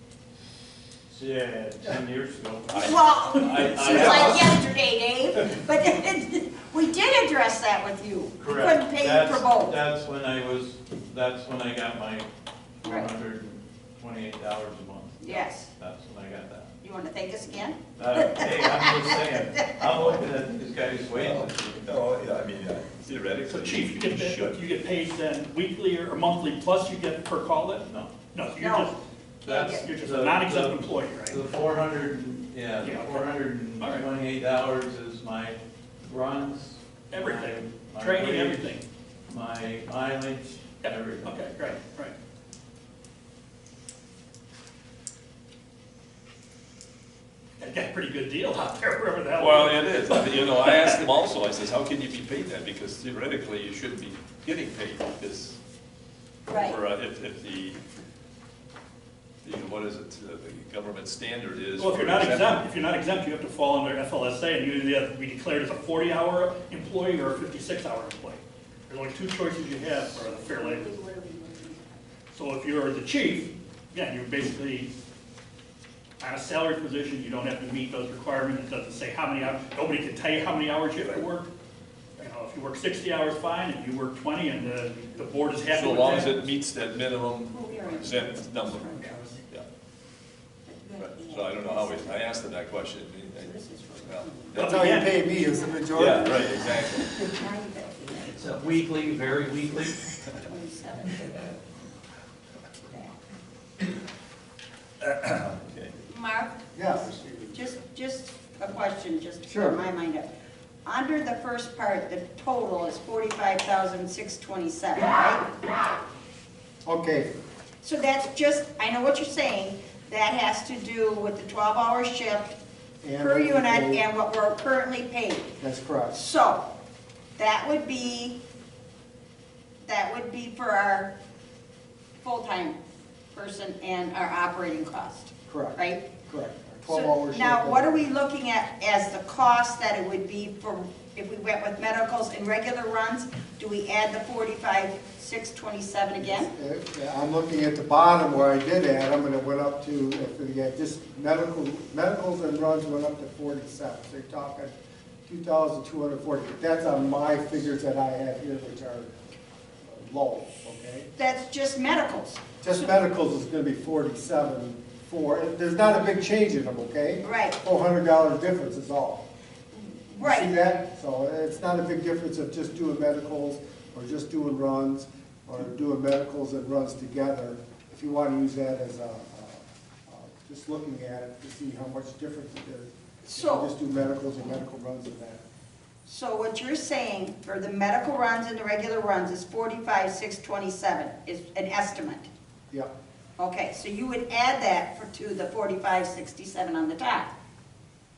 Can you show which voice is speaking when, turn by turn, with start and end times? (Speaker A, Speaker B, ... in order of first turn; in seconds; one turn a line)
Speaker A: 1.1-4.6
Speaker B: 2.7-9.8
Speaker C: 2.7-3.0
Speaker C: 3.7-4.2
Speaker A: 8.4-12.3
Speaker A: 12.8-16.7
Speaker B: 12.8-13.1
Speaker B: 15.2-15.7
Speaker B: 16.8-19.2
Speaker A: 18.0-21.8
Speaker C: 20.0-20.2
Speaker C: 21.1-24.6
Speaker D: 23.4-31.4
Speaker B: 28.6-29.8
Speaker A: 29.4-41.8
Speaker D: 32.8-34.1
Speaker D: 37.1-38.8
Speaker D: 40.8-42.1
Speaker D: 47.6-51.0
Speaker C: 49.4-55.6
Speaker B: 56.5-56.8
Speaker C: 56.5-57.8
Speaker C: 59.4-62.6
Speaker D: 61.8-70.9
Speaker B: 70.1-72.0
Speaker D: 72.3-74.9
Speaker D: 76.2-81.5
Speaker D: 82.2-86.5
Speaker C: 85.7-89.7
Speaker B: 87.5-89.4
Speaker B: 90.7-92.4
Speaker C: 91.0-94.8
Speaker B: 93.3-94.7
Speaker D: 94.5-95.2
Speaker E: 94.6-96.5
Speaker C: 95.9-97.3
Speaker B: 96.6-98.5
Speaker A: 98.2-100.1
Speaker B: 100.3-101.6
Speaker B: 102.9-103.1
Speaker C: 105.0-105.9
Speaker B: 106.1-110.3
Speaker E: 106.7-107.1
Speaker C: 107.2-107.6
Speaker E: 109.5-109.8
Speaker B: 110.8-115.5
Speaker E: 116.8-117.3
Speaker B: 117.8-122.5
Speaker E: 123.0-124.0
Speaker B: 123.2-125.5
Speaker E: 125.6-126.2
Speaker B: 126.1-126.7
Speaker B: 127.4-128.4
Speaker B: 129.8-131.1
Speaker B: 132.2-132.8
Speaker B: 133.3-136.1
Speaker E: 135.5-138.1
Speaker B: 136.8-146.5
Speaker E: 146.2-154.7
Speaker E: 155.3-159.1
Speaker E: 159.8-161.1
Speaker B: 161.2-162.9
Speaker E: 162.6-169.2
Speaker B: 167.2-167.6
Speaker B: 169.7-170.6
Speaker E: 170.2-185.4
Speaker B: 183.2-183.7
Speaker B: 186.0-192.3
Speaker B: 193.4-197.3